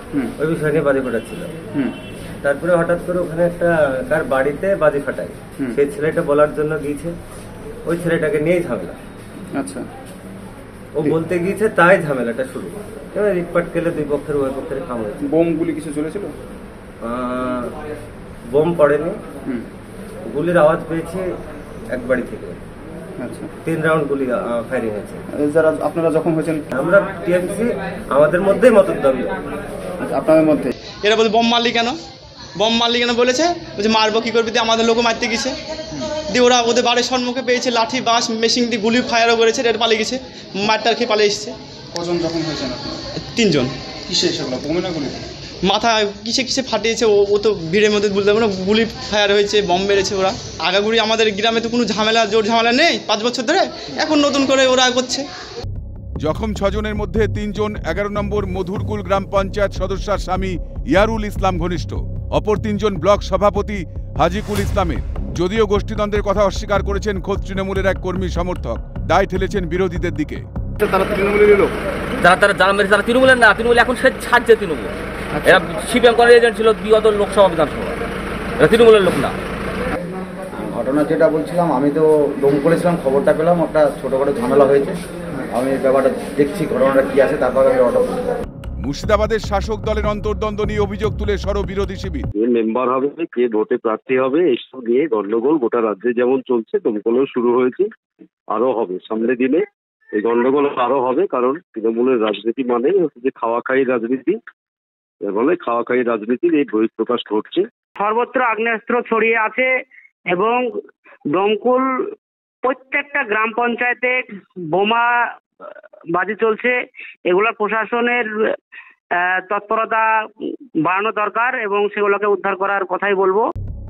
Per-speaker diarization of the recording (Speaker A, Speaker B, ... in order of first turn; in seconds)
Speaker A: 0.4-1.5, 2.4-7.2, 7.8-9.0, 10.9-15.2, 17.0-17.8, 18.5-19.2, 20.3-21.3, 21.9-22.6, 23.6-25.2, 26.8-29.4
Speaker B: 9.6-9.9, 15.2-16.3, 23.2-23.5, 25.3-26.6, 30.0-30.7, 41.9-43.0, 44.1-45.2, 70.8-71.7, 75.3-75.6
Speaker C: 31.0-32.0, 32.6-35.6, 36.2-41.6, 43.2-43.7, 45.6-55.3
Speaker D: 56.2-70.4, 88.8-92.3
Speaker E: 72.2-74.9, 75.4-77.9, 78.6-79.3
Speaker F: 80.6-85.0, 85.5-88.3
Speaker G: 92.4-97.9, 98.5-99.6, 100.2-104.4, 105.3-107.6
Speaker H: 108.0-109.7, 110.3-110.6, 111.3-111.9, 112.6-114.2, 114.7-115.1, 116.1-116.8, 117.3-118.2, 119.2-120.1, 120.8-123.5